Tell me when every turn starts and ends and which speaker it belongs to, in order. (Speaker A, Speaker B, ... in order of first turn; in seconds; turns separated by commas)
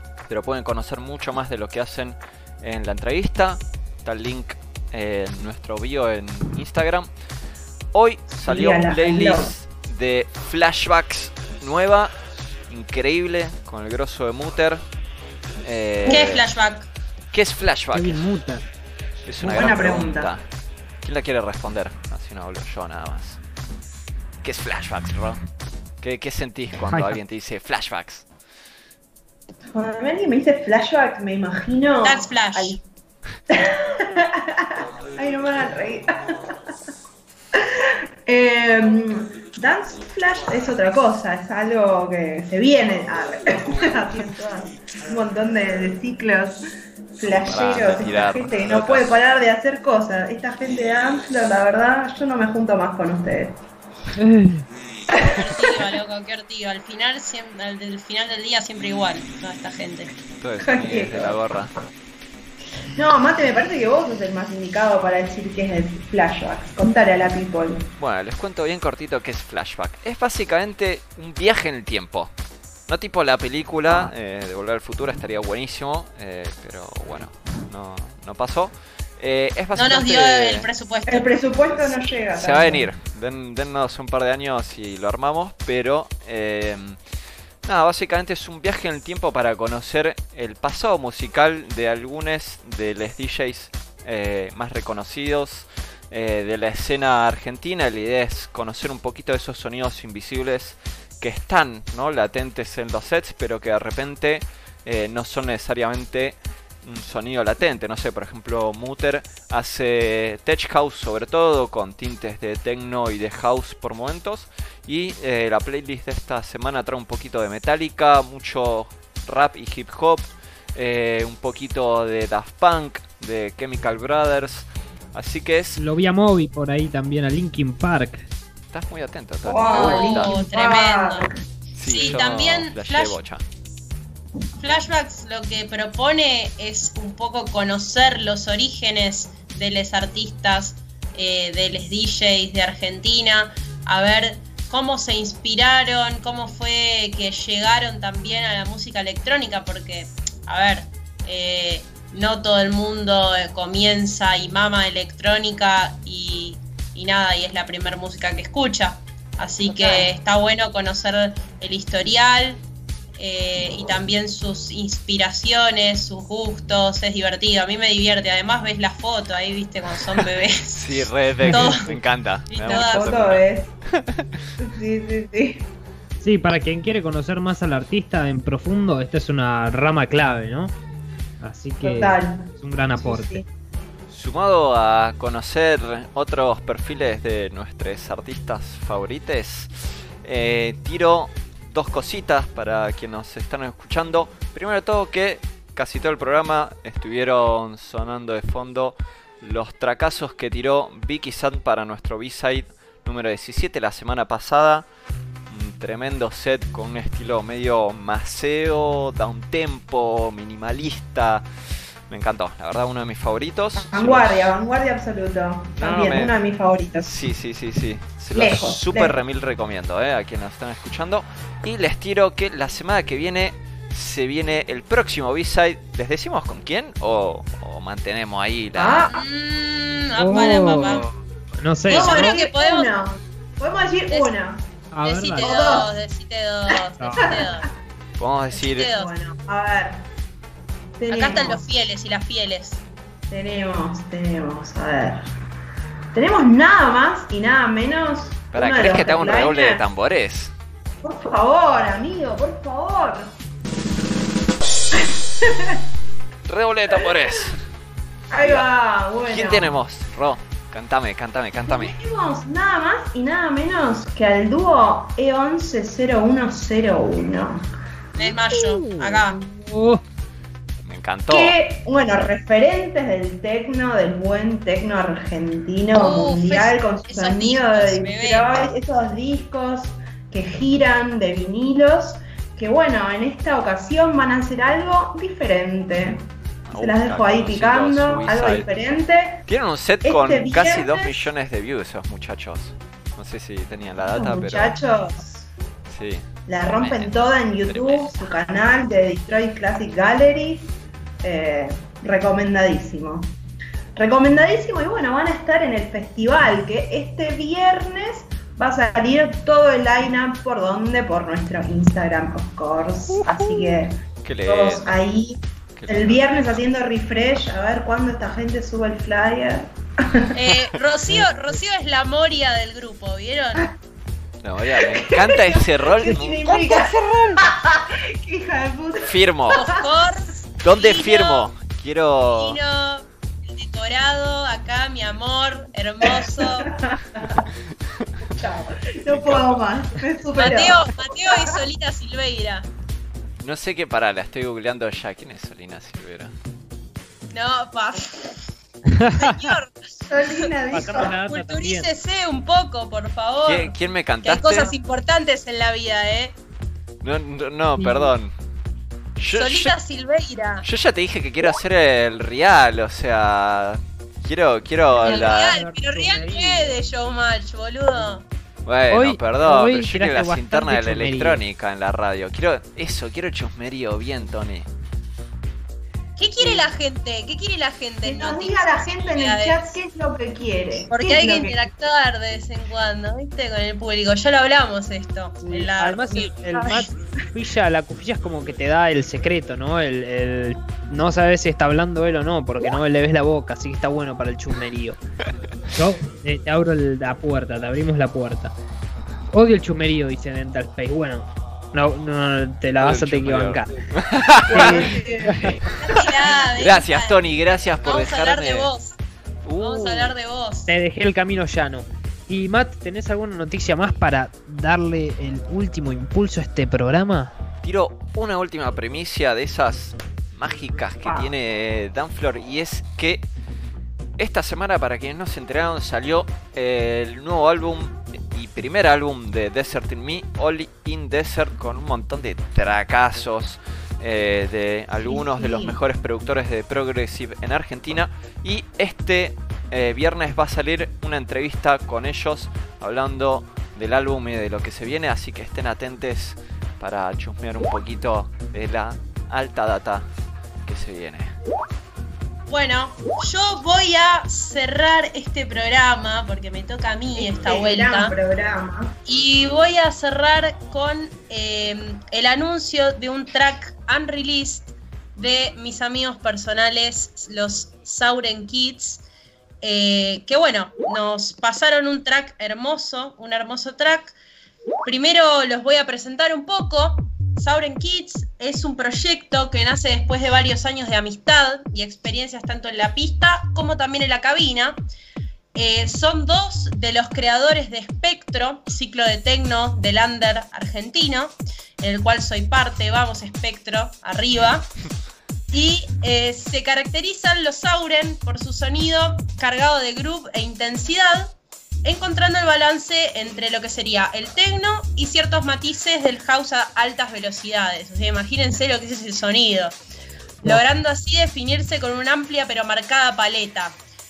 Speaker A: 0.3-7.1, Speaker A: 7.9-12.2, Speaker B: 8.3-9.5, Speaker A: 12.7-14.8, Speaker A: 15.6-16.5, Speaker B: 16.0-16.3, Speaker C: 16.1-16.9, Speaker A: 17.3-18.3, Speaker D: 17.9-18.6, Speaker A: 19.3-20.4, Speaker B: 19.4-20.3, Speaker A: 21.0-23.4, Speaker A: 24.4-25.4, Speaker A: 26.0-28.3, Speaker D: 26.9-27.2, Speaker B: 29.7-32.8, Speaker C: 32.0-32.8, Speaker B: 33.5-36.5, Speaker B: 37.5-46.6, Speaker B: 47.2-53.6, Speaker A: 47.3-49.2, Speaker D: 54.2-54.7, Speaker B: 55.1-55.5, Speaker C: 55.2-60.1, Speaker A: 60.4-61.7, Speaker B: 60.6-61.5, Speaker B: 63.0-67.8, Speaker A: 68.0-72.3, Speaker A: 72.9-80.7, Speaker C: 79.8-81.3, Speaker B: 81.1-82.9, Speaker A: 82.3-87.0, Speaker A: 87.6-125.8, Speaker D: 125.8-128.3, Speaker A: 128.7-130.4, Speaker B: 129.4-131.3, Speaker C: 129.7-131.3, Speaker A: 131.8-133.4, Speaker C: 131.8-133.2, Speaker C: 134.6-162.6, Speaker B: 159.6-160.1, Speaker C: 163.2-171.9, Speaker A: 170.7-173.4, Speaker D: 171.4-172.0, Speaker C: 172.5-173.2, Speaker B: 172.6-173.7, Speaker B: 174.6-175.7, Speaker D: 176.2-180.8, Speaker D: 181.4-183.4, Speaker B: 181.8-183.4, Speaker A: 184.1-204.9, Speaker A: 205.5-211.5, Speaker A: 212.1-214.3, Speaker B: 213.9-217.3, Speaker A: 215.8-216.3, Speaker A: 217.1-229.1, Speaker B: 218.3-219.2, Speaker B: 228.7-229.2, Speaker C: 229.1-231.1, Speaker D: 230.2-232.4, Speaker B: 231.9-234.6, Speaker C: 231.9-232.9, Speaker D: 234.9-235.6, Speaker C: 235.0-237.7, Speaker B: 235.4-235.9, Speaker D: 237.0-237.4, Speaker B: 237.2-237.5, Speaker A: 238.2-238.9, Speaker C: 238.5-239.1, Speaker B: 238.9-240.1, Speaker B: 241.0-241.6, Speaker C: 241.1-242.8, Speaker B: 243.3-245.3, Speaker B: 246.1-249.8, Speaker A: 248.5-250.5, Speaker B: 251.0-253.3, Speaker B: 254.9-255.8, Speaker A: 256.5-257.6, Speaker B: 256.9-257.2, Speaker B: 258.3-259.8, Speaker A: 258.4-258.7, Speaker A: 259.3-261.9, Speaker B: 261.6-267.7, Speaker C: 268.1-269.4, Speaker D: 268.5-270.0, Speaker A: 270.9-271.6, Speaker B: 271.3-289.4, Speaker C: 275.9-278.5, Speaker A: 286.7-288.7, Speaker A: 289.5-294.8, Speaker B: 290.0-291.3, Speaker B: 294.1-295.5, Speaker A: 295.9-296.2, Speaker B: 296.5-303.4, Speaker A: 296.8-298.3, Speaker B: 303.9-320.3, Speaker A: 313.3-313.6, Speaker A: 314.2-314.9, Speaker A: 315.8-316.6, Speaker C: 320.3-323.7, Speaker A: 324.4-327.4, Speaker B: 324.7-329.8, Speaker A: 329.0-329.6, Speaker C: 329.5-331.5, Speaker A: 330.6-332.6, Speaker C: 332.3-336.7, Speaker B: 336.0-337.4, Speaker B: 338.3-341.6, Speaker A: 339.1-339.6, Speaker C: 340.4-342.7, Speaker A: 343.4-346.3, Speaker C: 347.3-348.5, Speaker D: 348.9-349.5, Speaker C: 349.2-350.5, Speaker B: 350.1-351.1, Speaker D: 350.7-351.9, Speaker C: 351.3-356.4, Speaker A: 353.4-354.7, Speaker A: 357.0-358.3, Speaker D: 357.8-358.1, Speaker A: 359.2-359.7, Speaker C: 359.3-360.7, Speaker A: 360.6-365.6, Speaker D: 364.9-366.8, Speaker C: 365.0-368.2, Speaker A: 368.7-374.7, Speaker D: 368.9-371.4, Speaker C: 376.2-379.6, Speaker B: 378.0-381.6, Speaker C: 380.9-386.9, Speaker D: 385.4-395.0, Speaker D: 395.8-398.5, Speaker D: 399.3-403.7, Speaker A: 402.8-408.7, Speaker B: 404.5-405.5, Speaker D: 404.5-405.6, Speaker C: 405.8-407.3, Speaker C: 407.8-409.0, Speaker A: 409.4-410.1, Speaker C: 409.6-410.7, Speaker D: 410.7-417.3, Speaker A: 417.6-423.3, Speaker B: 421.0-421.3, Speaker A: 424.2-450.1, Speaker B: 434.9-435.8, Speaker A: 450.6-451.3, Speaker C: 452.5-458.1, Speaker B: 457.1-458.9, Speaker C: 459.1-469.0, Speaker C: 469.6-474.1, Speaker C: 474.8-484.8, Speaker C: 485.5-494.7, Speaker C: 495.5-509.8, Speaker C: 510.4-513.8